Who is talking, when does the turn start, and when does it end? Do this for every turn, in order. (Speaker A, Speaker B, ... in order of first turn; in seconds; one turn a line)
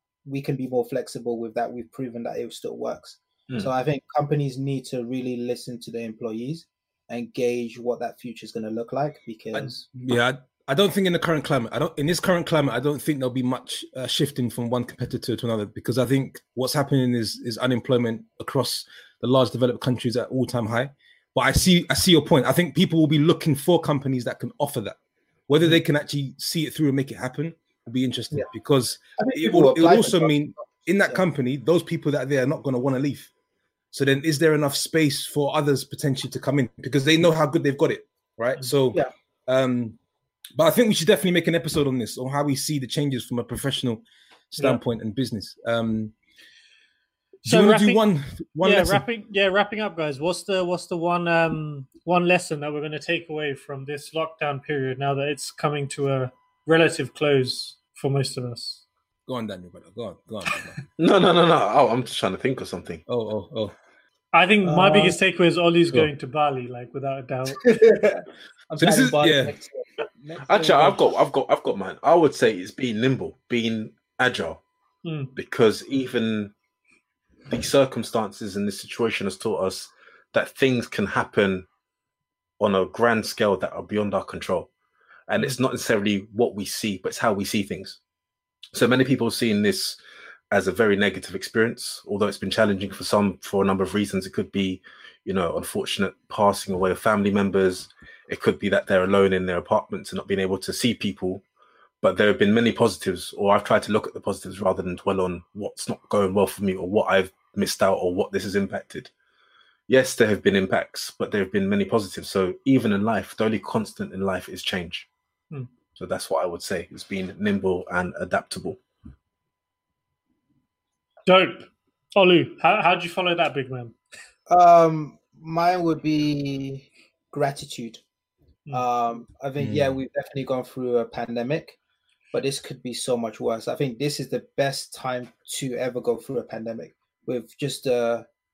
Speaker A: 0.2-9.8
Speaker B: 9.6-25.0
Speaker B: 25.5-33.3
Speaker A: 29.2-31.2
Speaker B: 33.9-40.0
Speaker B: 40.5-46.1
Speaker B: 47.4-49.0
Speaker C: 47.5-48.0
Speaker C: 48.6-58.8
Speaker B: 59.3-60.7
Speaker D: 61.0-63.0
Speaker B: 63.1-63.7
Speaker C: 64.3-67.9
Speaker A: 64.6-65.2
Speaker A: 67.6-71.0
Speaker B: 68.8-69.5
Speaker D: 70.5-74.6
Speaker C: 75.0-75.3
Speaker D: 75.3-76.5
Speaker D: 77.5-81.7
Speaker D: 82.6-84.7
Speaker D: 85.3-88.0
Speaker D: 88.7-90.0
Speaker D: 90.5-101.4
Speaker D: 102.0-109.1
Speaker D: 109.9-115.1
Speaker D: 116.0-118.8
Speaker C: 121.2-123.9
Speaker A: 124.5-128.0
Speaker A: 128.7-131.8
Speaker A: 132.3-138.3